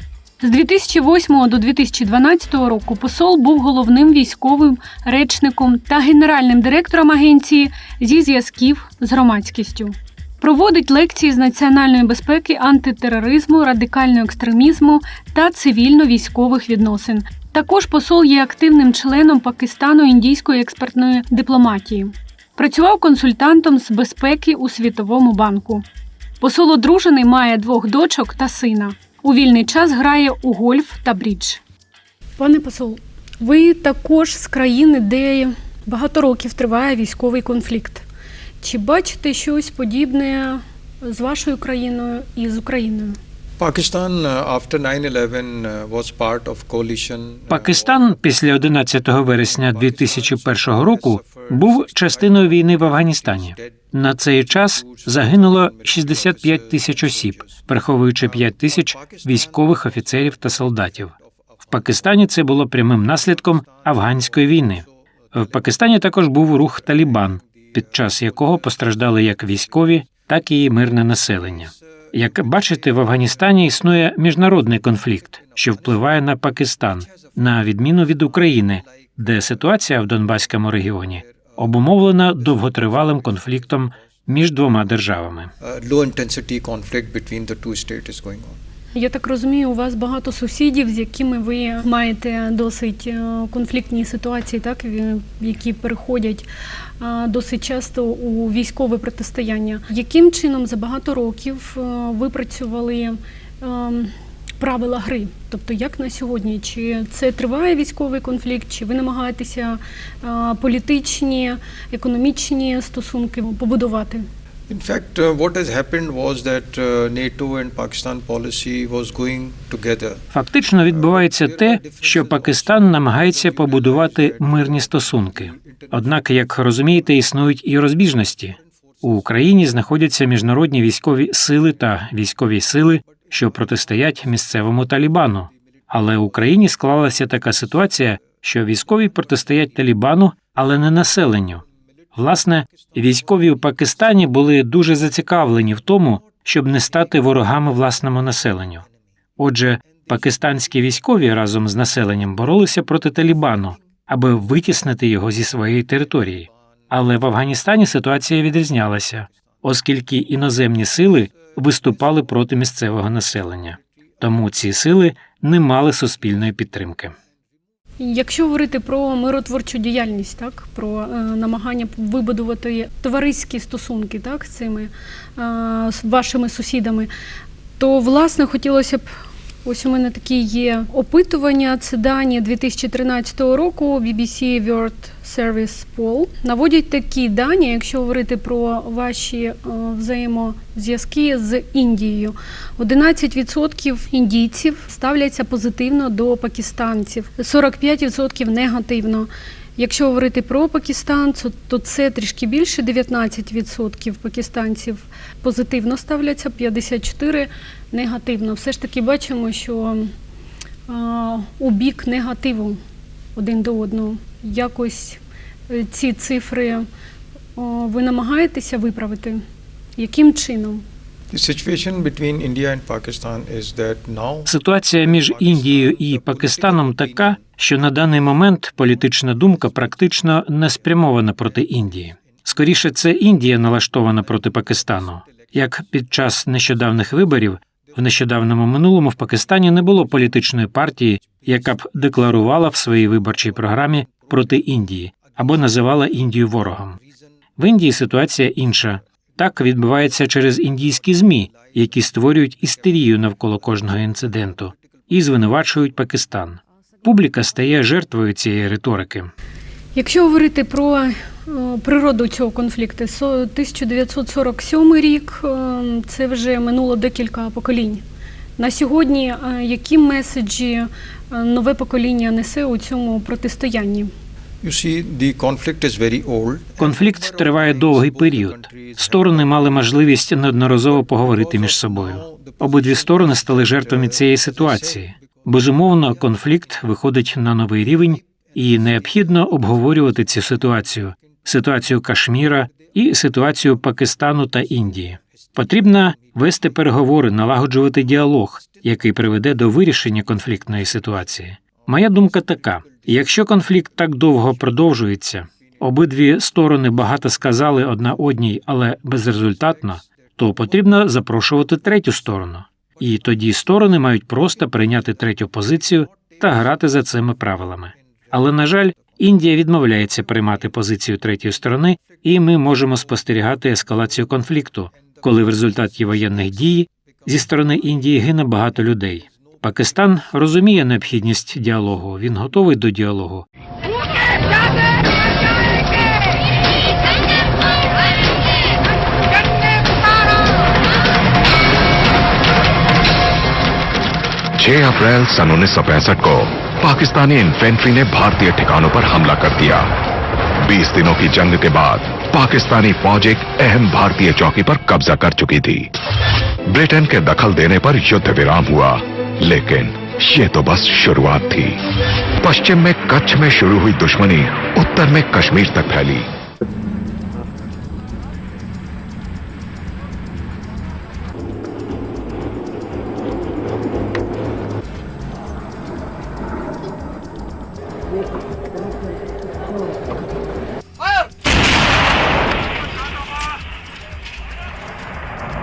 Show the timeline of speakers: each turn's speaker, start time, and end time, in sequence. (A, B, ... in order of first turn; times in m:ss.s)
0:00.4-0:25.8 A
0:26.4-0:31.6 A
0:32.4-0:38.0 A
0:38.6-0:43.2 A
0:43.6-0:48.2 B
0:47.5-1:01.1 C
0:49.4-0:53.7 B
0:54.5-0:57.6 B
0:58.2-0:59.8 B
1:01.6-1:25.5 C
1:25.6-1:28.6 B
1:28.9-1:36.4 A
1:37.0-1:54.2 A
1:54.7-2:00.2 B
2:00.3-2:21.6 C
2:00.9-2:06.2 B
2:22.1-2:28.8 C
2:29.4-2:47.1 C
2:48.0-2:57.1 A
2:57.8-2:59.0 A
2:59.6-3:30.1 A
3:30.9-3:32.8 A
3:33.4-3:36.8 A
3:37.6-3:39.4 A
3:40.0-3:40.8 A
3:41.3-3:44.5 B
3:44.5-4:07.0 C
3:45.0-3:47.4 B
4:07.6-4:19.3 C
4:19.9-4:28.0 A
4:28.6-4:34.1 A
4:34.6-4:40.0 B
4:36.8-5:33.4 C
4:40.6-4:45.2 B
5:44.5-5:50.0 D
5:50.6-5:56.0 D
5:56.6-6:06.3 D